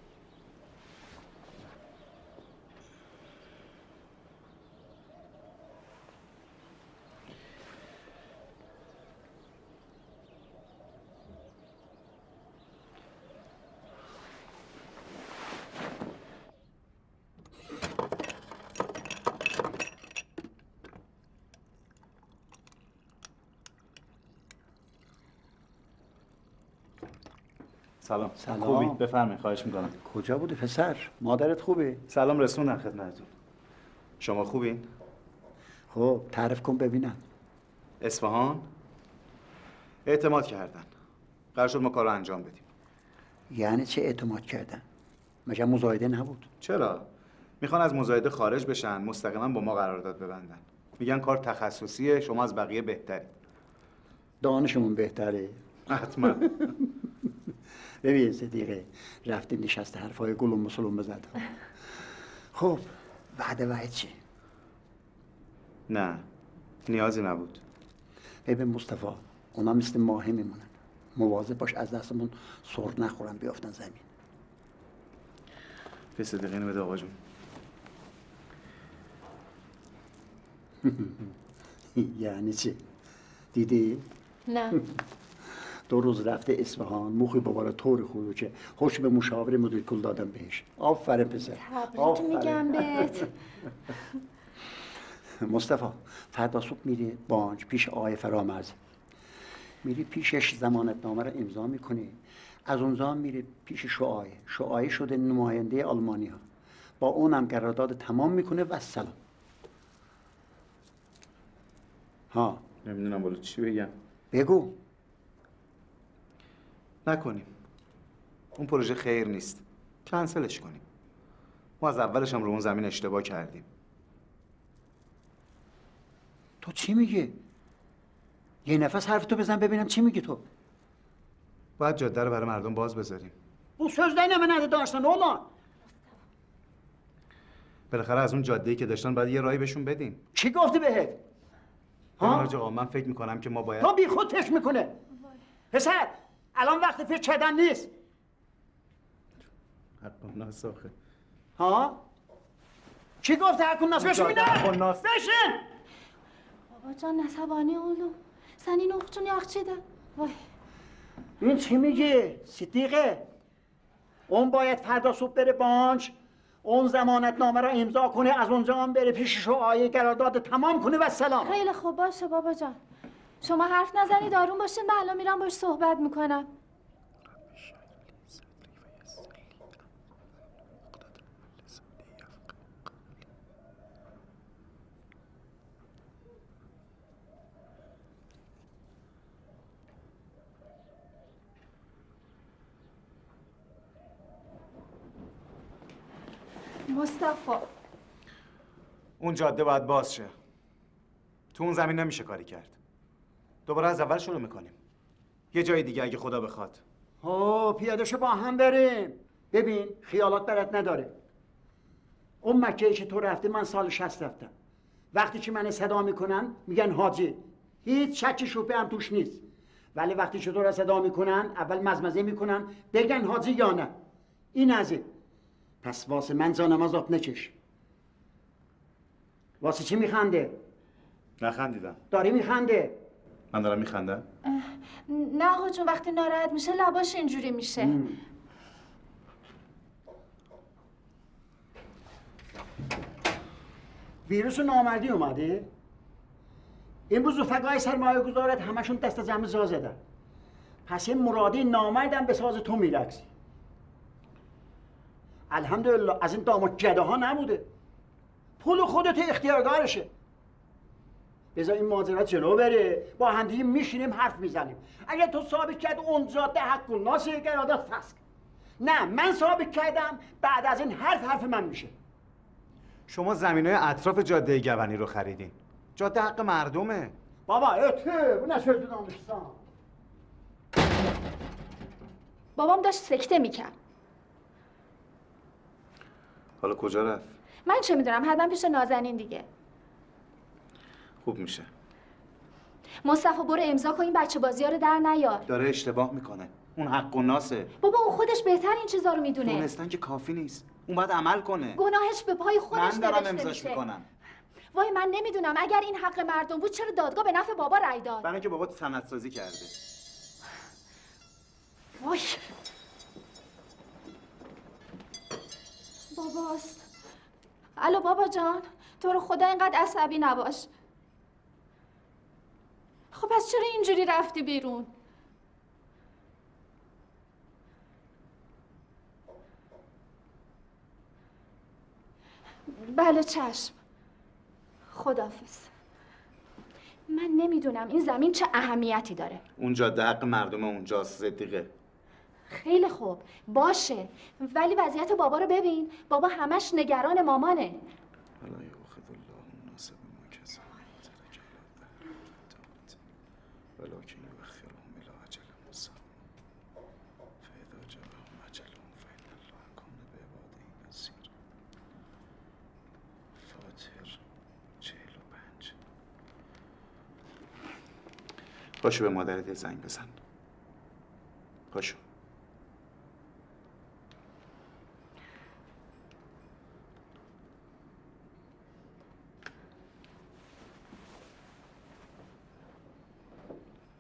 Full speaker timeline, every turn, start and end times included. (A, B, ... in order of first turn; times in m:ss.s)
0:28.0-0:29.9 A
0:28.4-0:29.0 B
0:30.0-0:32.0 B
0:32.1-0:33.3 A
0:34.2-0:34.9 A
0:35.9-0:37.2 B
0:38.0-0:38.7 A
0:40.1-0:40.9 A
0:41.6-0:42.6 A
0:43.5-0:44.8 B
0:45.5-0:46.5 B
0:46.6-0:47.1 A
0:47.6-0:53.3 A
0:54.4-0:55.6 B
0:55.9-0:56.5 A
0:58.0-1:01.4 B
1:02.5-1:04.2 B
1:05.9-1:06.2 A
1:06.9-1:07.6 A
1:08.5-1:14.0 B
1:16.2-1:17.2 A
1:20.8-1:21.3 B
1:22.0-1:22.8 B
1:23.5-1:24.1 B
1:24.5-1:24.8 C
1:25.9-1:33.3 B
1:31.6-1:33.3 C
1:35.4-1:38.8 B
1:39.8-1:46.4 B
1:47.0-1:49.2 B
1:52.3-1:52.6 B
1:52.8-1:53.9 A
1:54.3-1:54.8 B
1:57.1-1:57.5 A
1:58.6-2:00.8 A
2:01.8-2:03.7 A
2:06.6-2:07.4 B
2:08.6-2:10.5 B
2:11.8-2:13.4 A
2:13.8-2:15.5 B
2:17.9-2:20.2 A
2:20.4-2:21.2 B
2:22.2-2:22.5 B
2:22.2-2:23.9 A
2:23.8-2:25.0 B
2:25.7-2:27.9 B
2:30.0-2:30.9 A
2:31.6-2:32.0 B
2:33.2-2:35.6 B
2:34.0-2:35.0 A
2:36.7-2:40.4 C
2:41.4-2:43.3 B
2:44.3-2:51.6 B
2:51.4-2:52.8 C
2:53.4-2:56.5 C
3:16.9-3:17.7 C
3:19.2-3:20.3 A
3:21.5-3:22.8 A
3:23.7-3:24.8 A
3:25.5-3:26.8 A
3:27.2-3:31.2 B
3:32.4-3:34.5 B
3:35.1-3:39.4 B
3:40.0-3:44.0 B
3:44.5-3:45.1 B
3:45.8-3:47.5 B
3:49.6-3:50.6 B
3:51.4-3:52.0 A
3:52.1-3:53.0 B
3:53.5-3:54.2 A
3:54.5-3:58.0 C
3:57.8-3:58.2 B
4:04.2-4:05.7 B
4:07.1-4:10.0 B
4:10.9-4:13.3 B
4:15.5-4:17.7 B
4:18.6-4:20.1 B
4:21.6-4:28.2 B
4:28.8-4:31.9 B
4:33.1-4:37.1 A
4:37.5-4:39.6 B
4:42.6-4:43.7 C
4:46.6-4:47.3 A
4:47.7-4:49.5 C
4:51.2-4:51.7 A
4:53.0-4:55.4 C
4:55.5-4:57.7 A
4:57.8-4:59.7 C
4:59.4-5:01.8 A
5:01.8-5:03.8 C
5:02.7-5:04.1 A
5:04.7-5:08.3 C
5:08.2-5:09.8 A
5:12.0-5:12.5 C
5:16.1-5:16.9 C
5:17.8-5:20.7 C
5:23.1-5:24.9 C
5:32.7-5:33.8 C
5:34.9-5:35.7 C
5:37.1-5:39.4 C
5:39.6-5:41.7 A
5:42.5-5:47.8 C
5:48.4-5:51.8 A
5:52.5-5:53.0 A
5:53.8-5:56.0 A
5:57.4-6:01.3 A
6:03.4-6:04.2 A
6:04.8-6:05.8 A
6:08.8-6:10.1 A
6:11.7-6:12.0 A